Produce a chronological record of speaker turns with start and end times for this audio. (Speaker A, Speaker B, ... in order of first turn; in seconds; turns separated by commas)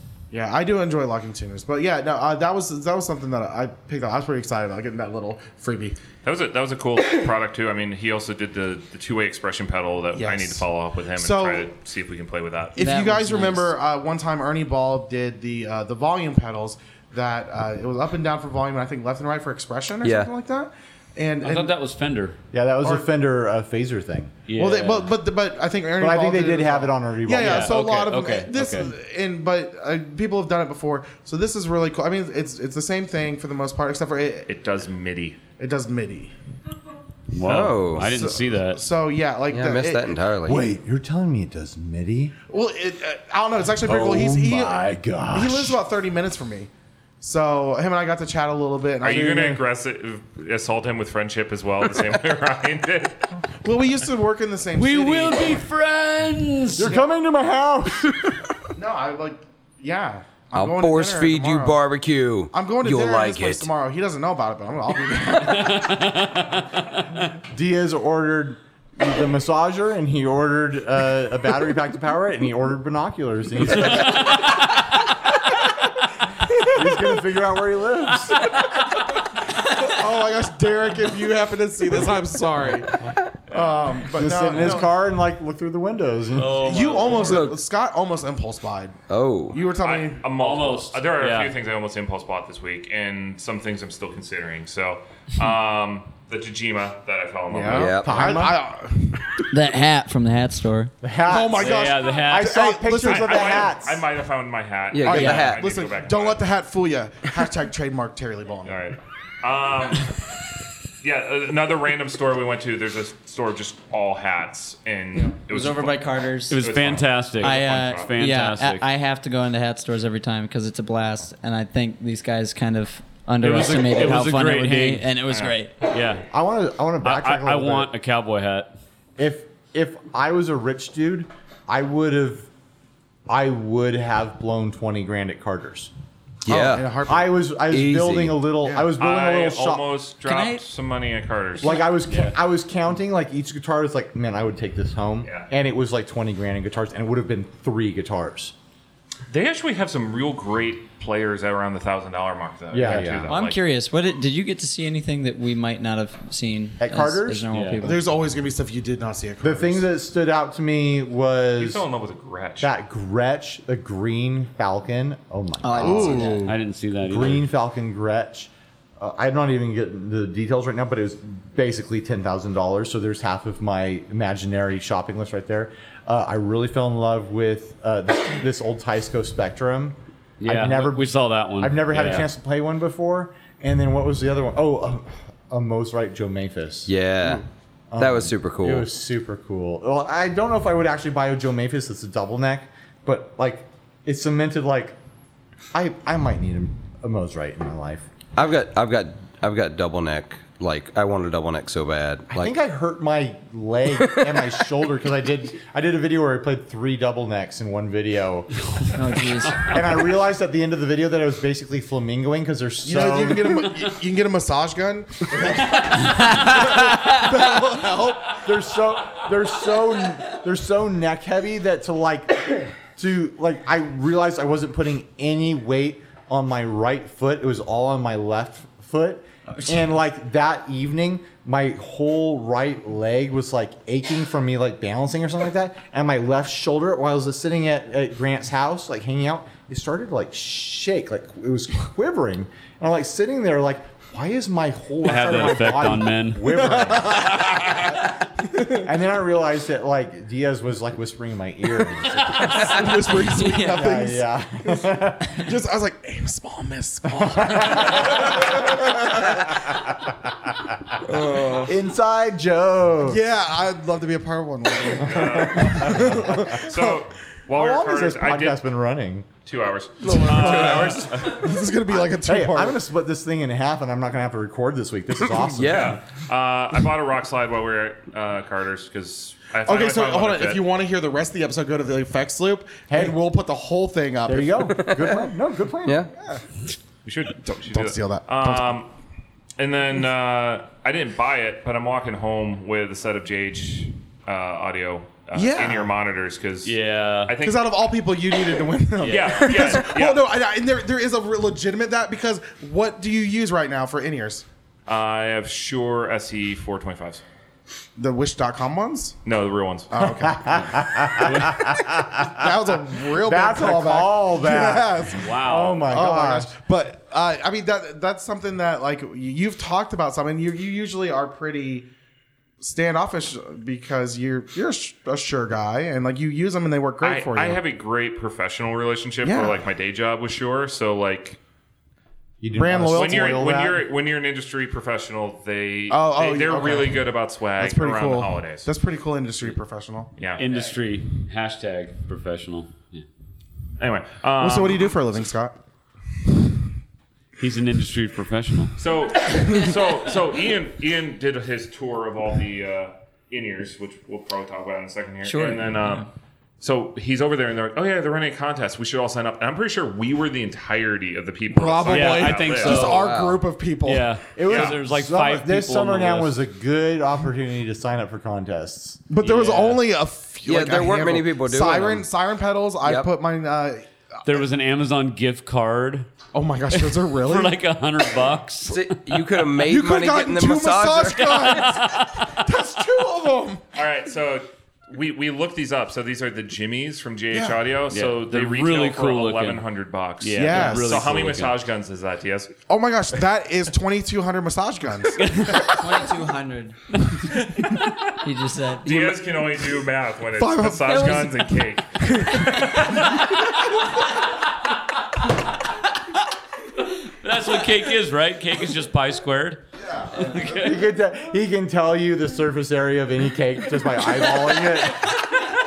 Speaker A: 0.3-6.0, Speaker B: 6.2-12.8, Speaker A: 10.1-10.7, Speaker A: 11.2-11.7, Speaker C: 12.8-13.7, Speaker A: 12.8-21.7, Speaker D: 20.0-20.3, Speaker E: 21.4-22.4, Speaker F: 22.5-24.4, Speaker E: 24.5-25.1, Speaker A: 24.6-34.5, Speaker F: 26.0-27.8, Speaker E: 27.4-28.9, Speaker F: 28.5-28.9, Speaker B: 34.5-35.4, Speaker A: 35.6-36.3, Speaker E: 37.3-38.8, Speaker D: 37.4-38.1, Speaker A: 38.1-40.1, Speaker D: 39.5-40.6, Speaker F: 40.5-42.4, Speaker A: 42.5-46.7, Speaker F: 43.8-45.8, Speaker A: 47.2-49.6, Speaker B: 49.0-53.2, Speaker F: 49.1-49.6, Speaker A: 53.6-55.7, Speaker E: 54.8-57.0, Speaker F: 56.7-58.5, Speaker A: 58.8-61.8, Speaker D: 60.5-63.7, Speaker A: 62.5-66.1, Speaker E: 65.5-66.5, Speaker F: 67.5-74.4, Speaker E: 73.7-74.5, Speaker A: 76.6-77.2, Speaker F: 76.7-78.5, Speaker A: 79.6-84.9, Speaker F: 84.1-87.0, Speaker E: 86.3-87.5, Speaker A: 86.6-89.0, Speaker D: 87.1-87.6, Speaker D: 89.1-89.6, Speaker A: 89.5-90.2, Speaker B: 89.8-98.0, Speaker E: 90.4-91.6, Speaker A: 97.5-99.5, Speaker D: 97.7-98.3, Speaker F: 97.9-98.6, Speaker C: 99.5-100.9, Speaker F: 101.0-104.0, Speaker A: 101.3-103.8, Speaker E: 101.5-102.6, Speaker B: 103.0-106.4, Speaker D: 104.9-105.6, Speaker A: 105.0-108.8, Speaker C: 105.1-105.5, Speaker B: 108.7-110.2, Speaker B: 111.0-116.0, Speaker C: 115.5-116.7, Speaker E: 116.5-118.9, Speaker B: 116.6-118.1, Speaker C: 117.4-126.0, Speaker E: 123.4-125.1, Speaker B: 125.3-125.5, Speaker E: 125.9-126.3, Speaker F: 126.3-127.9, Speaker E: 127.0-128.7, Speaker F: 129.2-132.5, Speaker F: 133.3-135.9, Speaker D: 136.5-136.9, Speaker A: 136.5-137.5, Speaker F: 137.1-139.9, Speaker D: 137.7-138.4, Speaker A: 138.6-138.9, Speaker B: 139.0-141.8, Speaker C: 140.2-140.7, Speaker F: 141.6-148.5, Speaker E: 142.1-142.3, Speaker B: 145.2-145.5, Speaker B: 149.3-153.6, Speaker F: 152.7-153.3, Speaker C: 153.3-158.1, Speaker F: 156.8-157.5, Speaker E: 157.5-157.9, Speaker A: 157.8-159.9, Speaker F: 159.4-161.9, Speaker B: 161.6-162.7, Speaker F: 162.6-166.4, Speaker C: 165.6-166.5, Speaker A: 165.8-166.6, Speaker E: 166.4-167.5, Speaker F: 167.1-195.0, Speaker E: 180.4-182.3, Speaker D: 186.9-187.4, Speaker D: 188.0-188.9, Speaker F: 195.7-198.1, Speaker D: 198.4-202.5, Speaker F: 202.3-208.5, Speaker D: 204.0-204.5, Speaker C: 208.9-209.8, Speaker F: 209.6-213.7, Speaker A: 212.8-218.4, Speaker C: 216.2-217.1, Speaker F: 218.3-247.7, Speaker C: 229.5-229.9, Speaker E: 245.0-246.5, Speaker A: 246.5-248.0, Speaker A: 248.5-248.8, Speaker F: 248.7-253.2, Speaker A: 252.2-254.9, Speaker C: 252.7-253.9, Speaker F: 253.7-255.4, Speaker A: 255.4-259.4, Speaker F: 257.1-260.1, Speaker A: 261.1-261.7, Speaker F: 261.6-263.2, Speaker A: 263.1-267.0, Speaker B: 265.0-268.7, Speaker F: 265.6-266.5, Speaker F: 267.5-269.3, Speaker B: 269.5-271.4, Speaker A: 270.0-272.8, Speaker F: 272.2-276.0, Speaker D: 275.2-276.0, Speaker B: 275.7-280.7, Speaker A: 279.7-284.9, Speaker F: 282.9-283.2, Speaker F: 284.3-286.1, Speaker D: 284.8-285.2, Speaker D: 285.8-286.1, Speaker B: 287.1-288.9, Speaker A: 287.7-288.8, Speaker B: 289.6-297.6, Speaker A: 295.3-295.9, Speaker E: 296.6-297.3, Speaker A: 297.4-304.5, Speaker E: 299.0-299.9, Speaker B: 299.0-300.2, Speaker B: 304.9-307.2, Speaker A: 308.0-309.2, Speaker B: 309.2-309.9, Speaker A: 309.9-310.6, Speaker F: 310.0-316.5, Speaker E: 310.5-311.8, Speaker A: 312.2-321.9, Speaker E: 315.2-315.9, Speaker A: 322.6-327.6, Speaker B: 327.0-331.4, Speaker A: 329.2-329.6, Speaker F: 332.4-333.8, Speaker A: 332.5-333.7, Speaker B: 332.9-338.7, Speaker A: 335.9-340.1, Speaker B: 340.2-340.4, Speaker E: 340.4-343.1, Speaker B: 343.8-344.9, Speaker A: 344.4-345.5, Speaker E: 347.4-348.8, Speaker B: 348.8-356.1, Speaker C: 355.2-356.1, Speaker B: 356.6-362.9, Speaker A: 361.5-364.6, Speaker E: 361.9-363.1, Speaker D: 362.7-363.4, Speaker E: 363.8-366.4, Speaker F: 364.3-369.0, Speaker B: 364.5-364.8, Speaker A: 369.1-373.9, Speaker E: 369.2-369.8, Speaker D: 370.5-372.1, Speaker D: 372.8-373.1, Speaker E: 374.3-376.1, Speaker A: 376.3-377.6, Speaker E: 376.7-379.3, Speaker D: 378.7-381.6, Speaker A: 379.6-383.6, Speaker E: 381.3-382.2, Speaker B: 383.8-392.5, Speaker A: 387.3-387.6, Speaker E: 387.9-389.6, Speaker E: 390.2-391.6, Speaker A: 390.4-391.1, Speaker A: 392.7-395.8, Speaker E: 395.2-395.8, Speaker C: 395.6-396.8, Speaker E: 396.9-397.7, Speaker B: 397.3-397.8, Speaker C: 398.2-399.4, Speaker B: 398.8-403.1, Speaker A: 400.4-401.5, Speaker C: 400.9-401.6, Speaker A: 402.0-402.9, Speaker E: 407.1-410.8, Speaker F: 410.4-415.2